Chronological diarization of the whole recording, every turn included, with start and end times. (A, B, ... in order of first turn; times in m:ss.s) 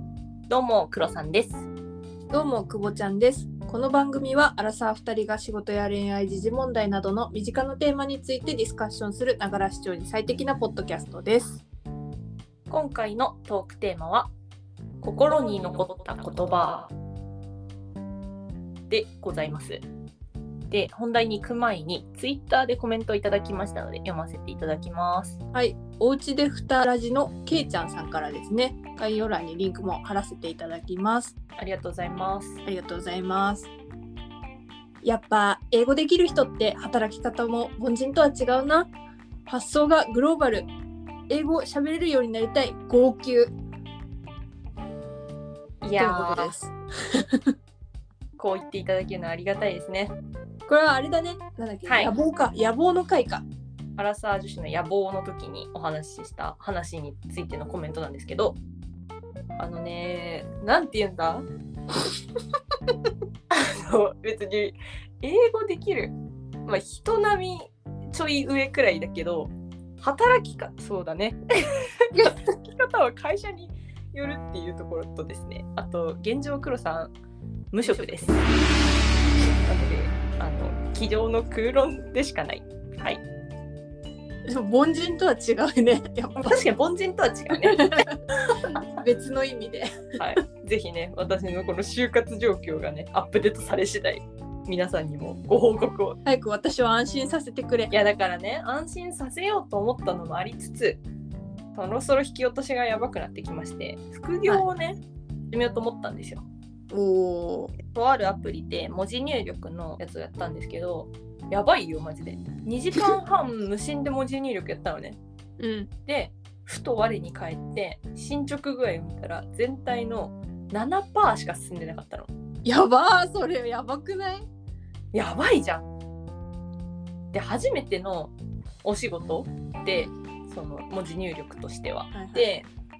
0:00.5-0:01.7 A
0:02.3-0:11.6 B
0:12.7-0:14.3 A
0:15.0-0:16.9 A
0:18.9-0:19.8 A
0:20.7-0:25.4 A
0:25.5-0:31.3 B
0:31.6-0:32.6 A
0:32.6-0:33.7 B
0:35.0-0:38.9 B
0:39.5-0:40.7 B
0:41.3-0:43.5 B
0:45.8-0:46.5 A
0:46.0-0:47.5 B
0:48.4-0:50.1 A
0:50.7-0:53.4 B
0:51.8-0:52.1 A
0:54.0-0:58.6 A
0:59.6-1:01.4 A
1:03.5-1:06.1 A
1:06.6-1:17.1 A
1:12.1-1:12.6 B
1:17.7-1:18.4 A
1:19.6-1:23.2 A
1:24.5-1:26.6 B
1:26.4-1:28.8 A
1:27.6-1:29.9 B
1:30.2-1:36.2 A
1:36.2-1:37.9 B
1:37.9-1:41.0 A
1:41.7-1:45.0 A
1:45.5-1:46.5 A
1:46.9-1:47.8 B
1:47.8-1:55.2 A
1:55.6-1:55.9 B
1:56.0-2:02.3 A
2:02.6-2:04.4 B
2:05.1-2:05.8 A
2:07.3-2:08.3 A
2:08.8-2:12.7 A
2:12.1-2:12.5 B